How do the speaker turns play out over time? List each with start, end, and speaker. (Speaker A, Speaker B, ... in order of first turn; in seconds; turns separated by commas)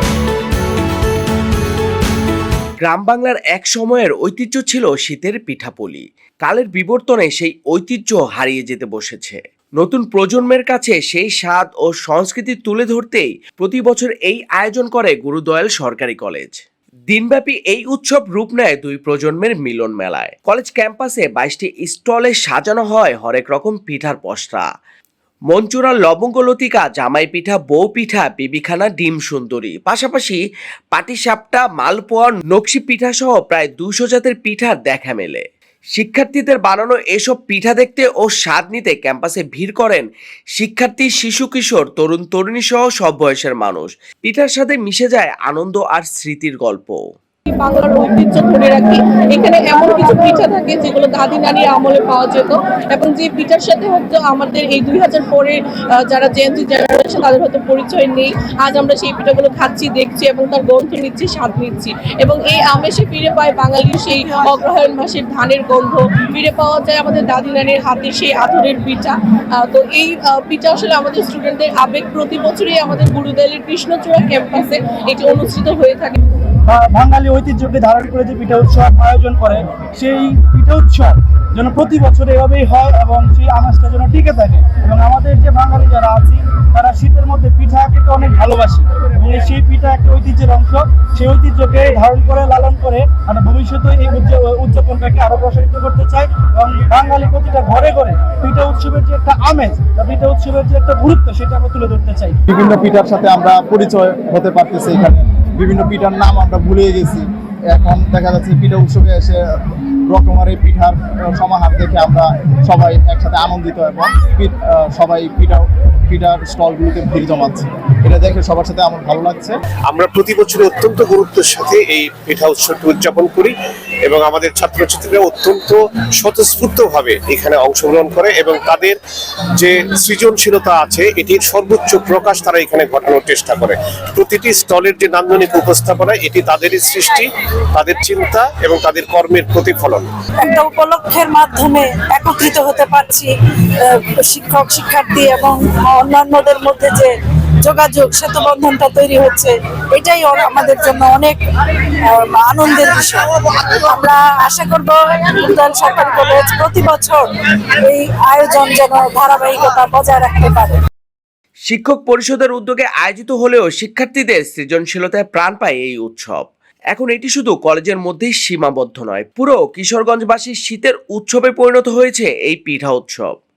Speaker A: 2.8-24.7, Speaker A: 25.5-30.4, Speaker A: 30.9-47.0, Speaker B: 47.5-76.2, Speaker C: 76.7-102.4, Speaker D: 102.5-119.6, Speaker E: 119.9-123.5, Speaker E: 124.0-129.0, Speaker E: 129.6-140.1, Speaker F: 140.4-143.3, Speaker F: 143.8-147.1, Speaker F: 147.6-151.4, Speaker F: 152.1-157.3, Speaker F: 157.8-160.8, Speaker A: 161.7-173.3